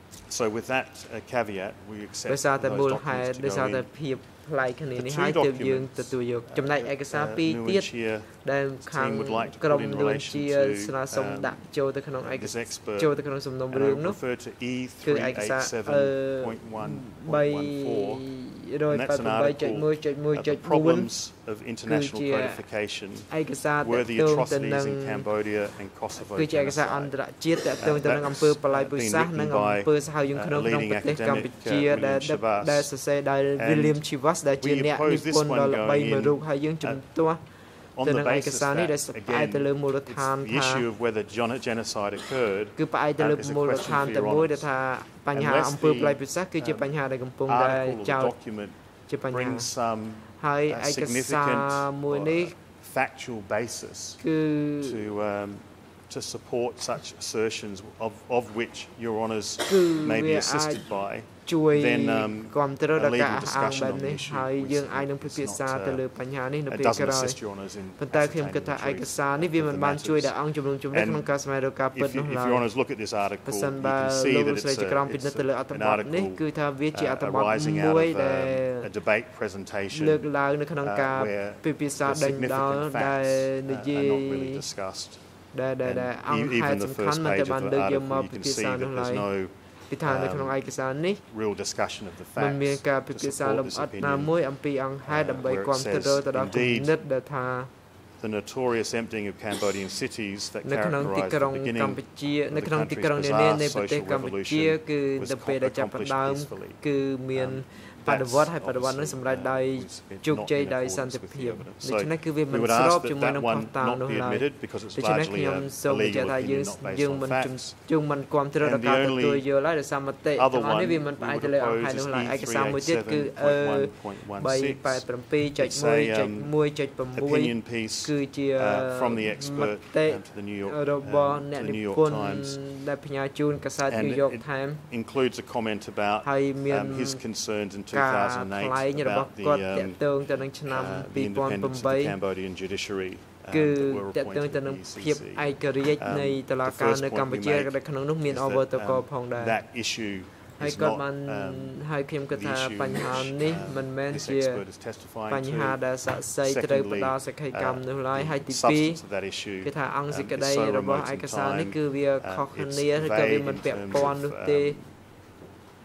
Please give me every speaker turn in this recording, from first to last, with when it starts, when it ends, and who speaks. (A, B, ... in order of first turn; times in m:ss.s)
0:00.2-0:03.9 A
0:02.3-0:14.4 B
0:05.0-0:11.7 A
0:12.2-0:18.3 A
0:15.0-0:21.3 B
0:18.9-0:37.1 A
0:21.8-0:22.6 B
0:23.3-0:25.3 B
0:26.2-0:40.8 B
0:37.9-0:54.2 A
0:42.8-0:48.4 B
0:49.1-0:49.7 B
0:50.3-0:52.5 B
0:54.2-0:55.0 B
0:54.8-1:34.5 A
0:59.6-1:12.8 B
1:13.4-1:18.9 B
1:19.9-1:24.6 B
1:25.5-1:29.3 B
1:29.9-1:31.2 B
1:32.4-1:37.7 B
1:35.0-1:37.0 A
1:38.2-1:57.8 A
1:40.6-2:14.9 B
1:58.6-1:59.5 A
2:00.4-2:12.7 A
2:13.9-2:44.9 A
2:16.2-2:17.2 B
2:17.9-2:22.2 B
2:23.5-2:29.6 B
2:30.6-2:34.6 B
2:35.2-2:39.0 B
2:39.5-2:44.8 B